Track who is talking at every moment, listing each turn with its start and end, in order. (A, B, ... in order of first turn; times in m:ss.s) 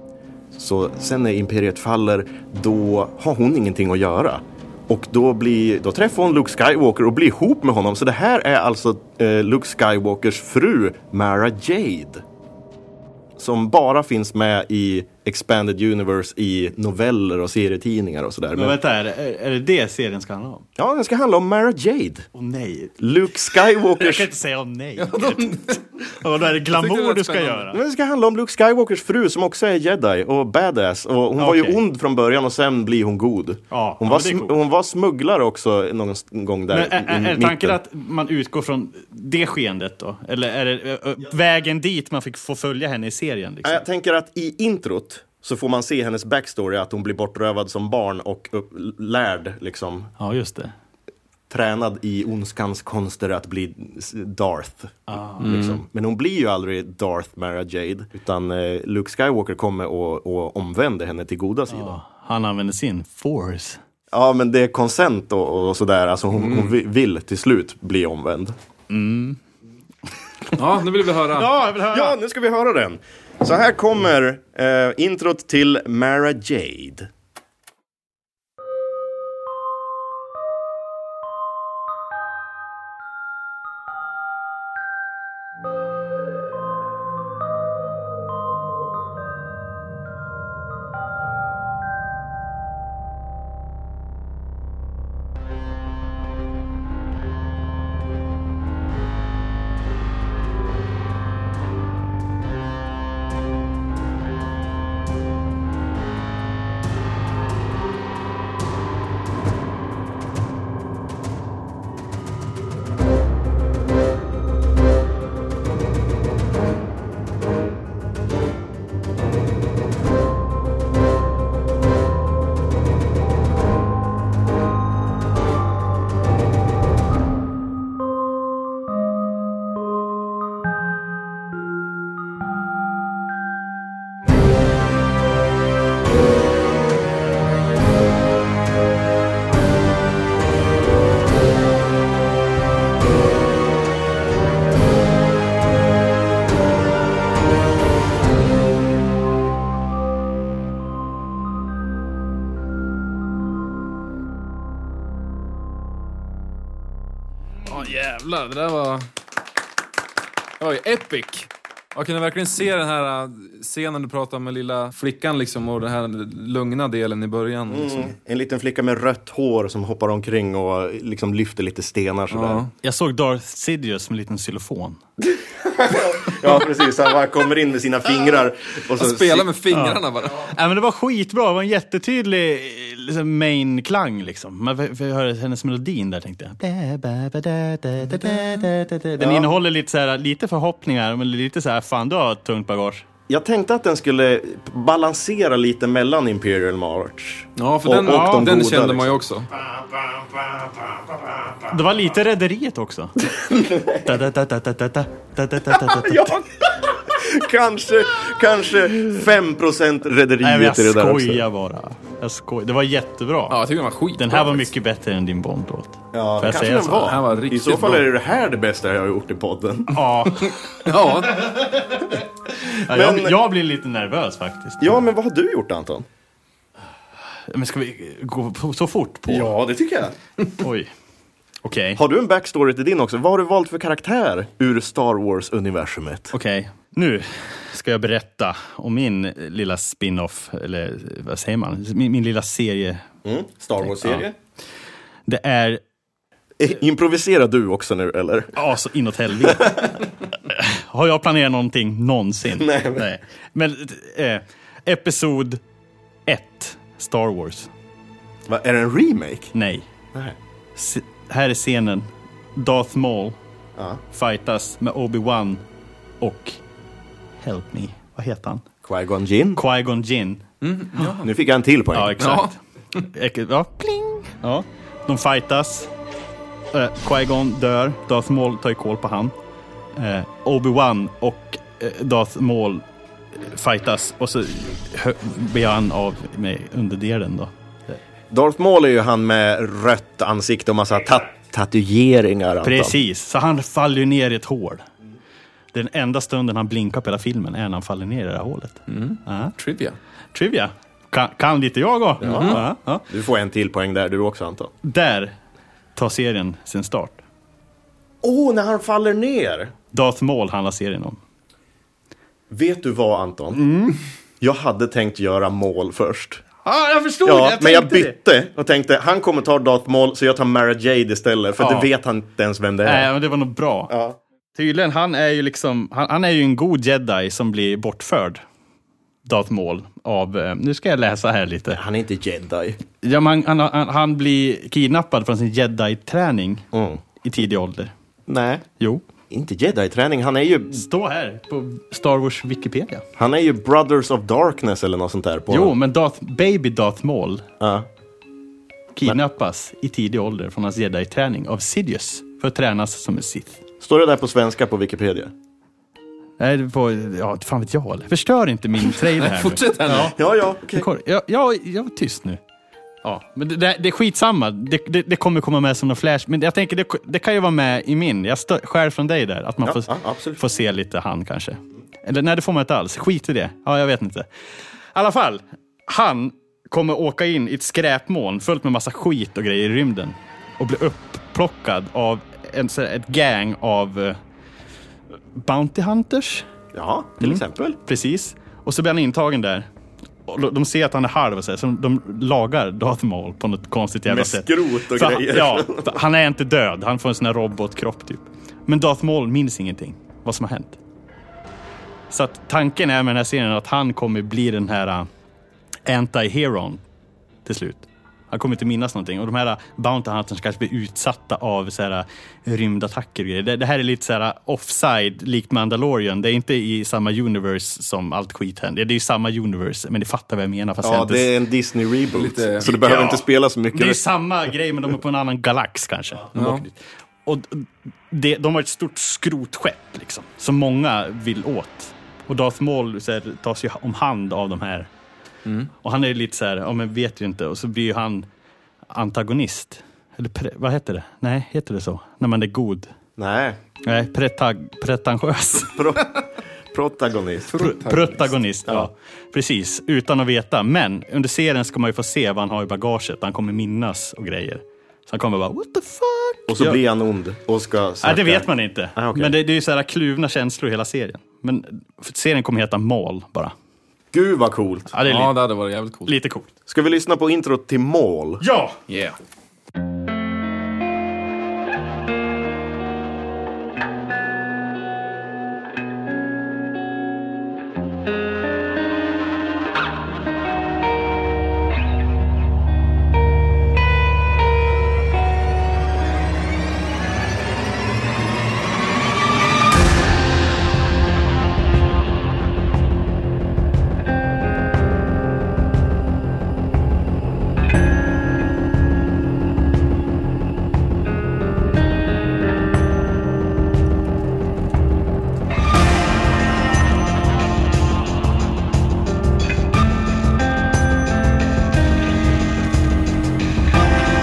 0:00.5-0:12.2 A
0:13.4-0:18.8 A
0:18.6-0:20.6 B
0:20.8-0:22.3 A
0:22.3-0:23.0 B
0:23.0-0:24.3 A
0:23.9-0:27.8 B
0:25.0-0:25.8 C
0:26.7-0:27.7 C
0:27.7-0:37.8 A
0:31.4-0:31.8 B
0:33.7-0:34.6 B
0:36.7-0:43.8 B
0:43.6-0:50.1 A
0:50.2-0:50.7 B
0:51.5-1:02.0 A
0:55.1-0:55.5 B
0:55.4-0:55.8 C
1:01.7-1:03.8 B
1:04.1-1:08.6 A
1:06.4-1:06.7 C
1:08.9-1:09.4 B
1:10.5-1:11.5 C
1:11.3-1:12.2 B
1:11.9-1:17.1 A
2:37.7-2:39.1 C
2:40.6-2:48.1 C
2:47.7-2:52.6 A
2:52.3-2:52.7 C
2:52.8-2:55.0 B
2:55.3-2:59.5 A
2:59.0-3:00.5 C
2:59.7-3:13.0 B
3:08.1-3:08.6 A
3:09.2-3:09.5 A
3:13.3-3:21.7 A
3:17.6-3:19.5 C
3:18.1-3:18.5 B
3:21.7-3:23.1 B
3:23.3-3:24.2 A
3:24.0-3:26.4 B
3:25.7-3:31.4 A
3:30.4-3:33.6 B
3:33.5-3:34.7 C
3:34.2-3:37.2 B
3:36.1-3:40.0 A
3:37.1-3:38.1 C
3:39.9-3:45.0 B
3:40.4-3:41.5 C
3:42.9-3:43.4 A
3:44.8-3:46.1 A
3:47.5-3:49.5 B
3:49.3-3:50.2 A
3:50.6-3:50.9 B
3:51.6-3:52.0 B
3:52.0-3:56.3 A
3:56.3-4:03.0 B
4:03.2-4:04.3 A
4:03.8-4:04.3 B
4:05.3-4:05.8 B
4:06.6-4:08.6 A
4:08.6-4:15.6 B
4:09.4-4:10.0 A
4:12.5-4:13.1 A
4:16.3-4:17.7 B
4:18.5-4:19.5 A
4:19.5-4:19.9 B
4:20.8-4:23.4 B
4:23.8-4:24.0 A
4:24.1-4:25.6 B
4:26.2-4:26.6 B
4:27.4-4:28.6 B
4:28.8-4:29.6 A
4:29.6-4:30.4 B
4:30.6-4:31.3 C
4:31.2-4:32.4 A
4:31.9-4:35.9 B
4:32.2-4:33.1 C
4:36.7-4:39.3 B
4:40.0-4:42.8 B
4:43.4-4:48.0 B
4:48.3-4:53.0 A
4:52.6-4:54.8 B
4:55.7-4:59.6 B
4:58.9-5:00.0 C
5:00.3-5:03.1 B
5:02.2-5:04.7 A
5:02.2-5:02.7 C
5:04.8-5:05.4 B
5:06.0-5:07.2 B
5:08.2-5:09.7 A
5:09.9-5:11.2 B
5:12.5-5:13.6 A
5:13.5-5:14.0 B
5:14.4-5:16.4 A
5:16.6-5:18.2 B
5:17.2-5:23.1 A
5:21.6-5:21.9 B
5:22.8-5:23.9 B
5:23.9-5:24.2 A
5:24.6-5:28.4 B
5:29.2-5:31.8 B
5:31.7-5:32.8 A
5:33.0-5:36.7 B
5:36.7-5:37.0 A
5:37.2-5:37.9 B
5:38.3-5:38.7 A
5:39.3-5:40.8 A
5:40.7-5:43.0 B
5:43.2-5:45.8 A
5:45.5-5:47.5 B
5:47.6-5:47.9 A
5:49.0-5:53.6 B
5:53.8-5:55.3 A
5:56.4-6:00.2 B
5:58.9-6:00.1 C
6:00.0-6:00.9 A
6:00.7-6:02.4 B
6:03.0-6:14.3 B
6:09.6-6:10.4 A
6:14.9-6:24.2 B
6:25.3-6:26.5 B
6:26.7-6:27.8 A
6:27.2-6:29.7 B
6:30.3-6:40.8 B
6:34.1-6:36.0 A
6:42.1-6:45.1 B
6:45.9-6:46.8 B
6:47.4-7:01.3 B
7:00.8-7:04.0 A
7:02.2-7:02.7 C
7:02.6-7:14.9 B
7:06.3-7:06.7 C
7:15.5-7:15.7 C
7:15.8-7:18.3 B
7:18.9-7:22.9 B
7:23.2-7:23.6 A
7:23.8-7:25.8 B
7:25.7-7:27.5 A
7:27.5-7:28.4 C
7:27.6-7:36.8 B
7:36.5-7:39.4 A
7:38.0-7:43.5 B
7:44.1-7:45.0 A
7:44.9-7:45.4 B
7:45.0-7:46.1 C
7:46.1-7:46.5 B
7:46.7-7:48.4 A
7:48.4-7:48.8 B
7:48.9-7:49.2 C